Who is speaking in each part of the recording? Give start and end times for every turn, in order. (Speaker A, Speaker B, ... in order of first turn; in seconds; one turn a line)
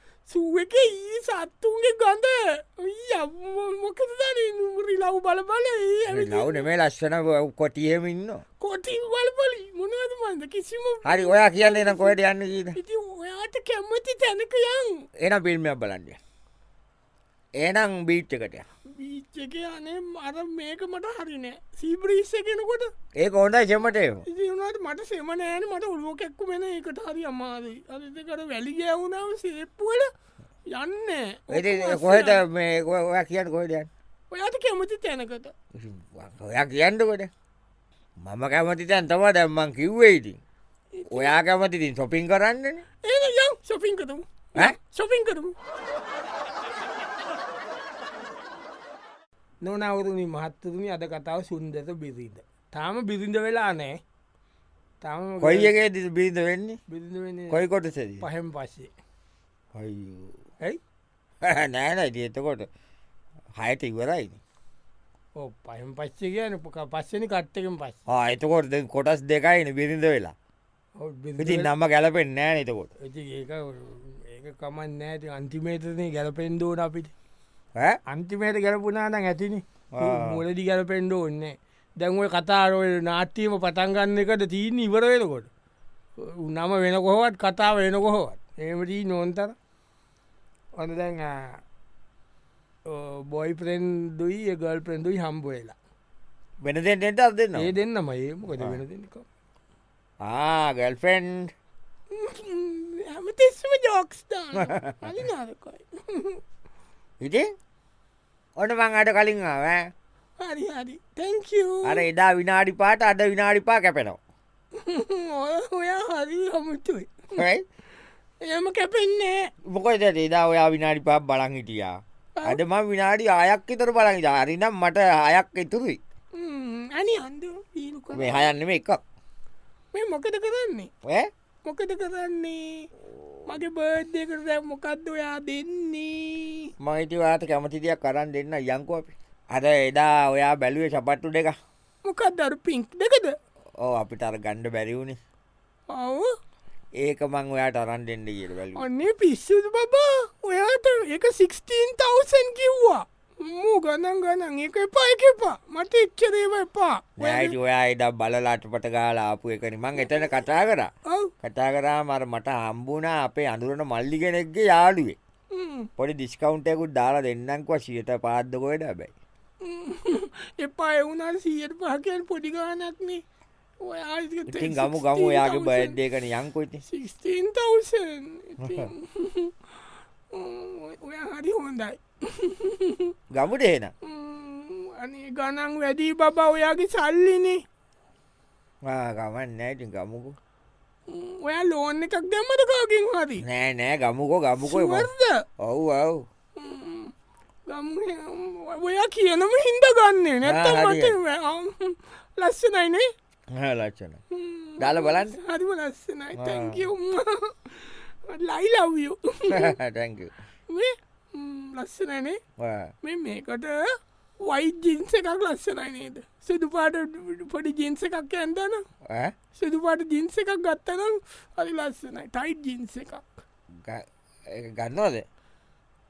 Speaker A: 0.3-6.7
Speaker B: 6.1-8.4
Speaker A: 8.6-12.2
Speaker B: 11.0-12.8
Speaker A: 12.7-15.1
Speaker B: 15.2-16.2
Speaker B: 17.6-18.6
Speaker A: 18.9-22.9
Speaker B: 23.2-24.2
Speaker A: 24.2-30.1
Speaker A: 30.7-32.4
Speaker B: 31.5-33.9
Speaker A: 34.3-35.5
Speaker B: 35.7-37.3
Speaker B: 38.2-40.4
Speaker A: 41.0-41.4
Speaker B: 41.1-42.8
Speaker A: 43.0-45.5
Speaker A: 49.6-54.0
Speaker A: 55.0-55.7
Speaker B: 55.4-56.8
Speaker A: 56.9-57.6
Speaker B: 57.5-58.2
Speaker A: 58.2-58.9
Speaker B: 59.7-60.4
Speaker B: 61.4-62.7
Speaker B: 63.6-64.4
Speaker A: 65.4-68.0
Speaker B: 68.1-70.3
Speaker A: 71.0-71.7
Speaker B: 71.4-72.9
Speaker A: 73.0-77.1
Speaker A: 78.1-85.5
Speaker B: 79.9-80.4
Speaker A: 86.2-89.5
Speaker A: 90.8-91.6
Speaker A: 92.9-95.7
Speaker B: 96.6-97.7
Speaker A: 97.5-99.2
Speaker B: 100.2-101.5
Speaker A: 102.1-106.4
Speaker B: 104.5-105.1
Speaker B: 107.2-107.5
Speaker B: 108.5-109.9
Speaker A: 110.4-112.0
Speaker B: 111.8-114.2
Speaker A: 114.8-117.4
Speaker B: 117.3-117.6
Speaker A: 118.4-119.5
Speaker B: 119.6-126.0
Speaker A: 126.3-128.5
Speaker B: 128.1-129.0
Speaker A: 129.9-130.9
Speaker B: 131.0-131.3
Speaker A: 131.6-132.9
Speaker A: 133.4-136.7
Speaker B: 136.8-141.6
Speaker A: 142.0-143.4
Speaker B: 143.8-145.2
Speaker A: 145.9-146.3
Speaker B: 147.0-148.8
Speaker A: 148.7-157.6
Speaker B: 157.2-160.9
Speaker B: 161.4-165.2
Speaker A: 165.5-165.9
Speaker B: 166.0-169.1
Speaker A: 169.6-173.2
Speaker A: 173.8-176.0
Speaker B: 174.5-176.8
Speaker A: 176.8-179.5
Speaker B: 178.6-178.9
Speaker A: 180.3-183.1
Speaker B: 183.3-183.9
Speaker A: 184.0-187.6
Speaker B: 188.8-190.3
Speaker A: 191.1-193.4
Speaker B: 193.4-196.2
Speaker A: 194.6-195.4
Speaker A: 196.6-197.1
Speaker A: 197.7-203.1
Speaker B: 200.4-201.2
Speaker B: 203.5-204.2
Speaker A: 204.3-209.7
Speaker B: 204.8-205.4
Speaker B: 206.3-206.8
Speaker B: 209.5-210.3
Speaker A: 210.7-212.4
Speaker B: 212.6-212.9
Speaker A: 213.0-213.8
Speaker A: 214.4-218.8
Speaker B: 219.1-219.3
Speaker A: 219.6-223.2
Speaker B: 223.7-225.2